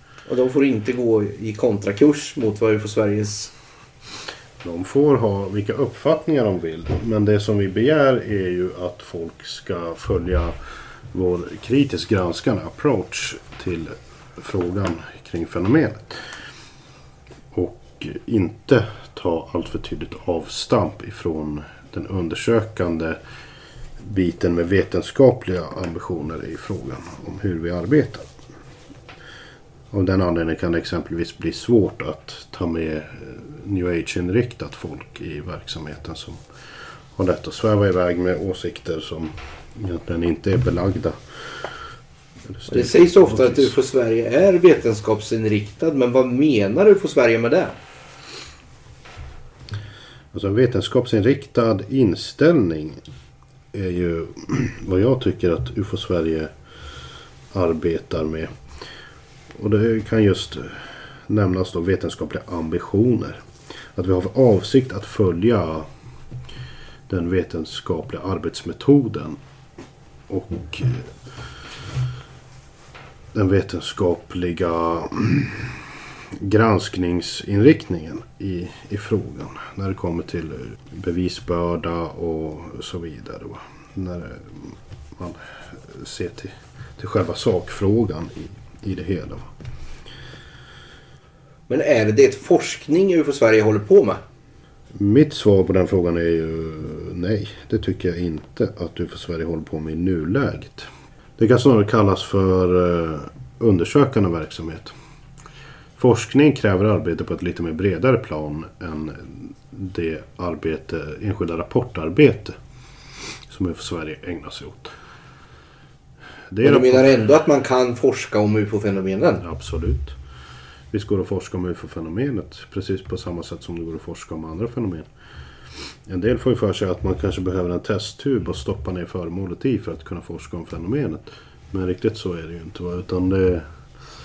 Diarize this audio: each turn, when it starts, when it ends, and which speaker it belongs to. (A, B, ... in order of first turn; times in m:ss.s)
0:00.3-0:03.5 A
0:04.6-0:10.6 B
0:11.1-0:16.2 B
0:17.5-0:23.2 B
0:24.0-0:28.2 B
0:29.9-0:36.4 B
0:37.2-0:41.2 B
0:42.5-0:43.8 B
0:42.7-0:47.8 A
0:50.3-0:53.0 B
0:53.7-0:56.5 B
0:57.5-0:58.5 B
0:59.5-1:03.4 B
1:04.0-1:05.9 B
1:07.1-1:09.4 B
1:10.3-1:11.1 B
1:13.3-1:29.5 B
1:31.7-1:34.2 A
1:35.0-1:44.9 B
1:46.0-1:52.6 B
1:53.5-1:54.9 B
1:56.5-1:57.1 B
1:56.6-1:59.4 A
1:59.4-2:00.2 B
2:00.9-2:05.1 B
2:06.1-2:13.7 B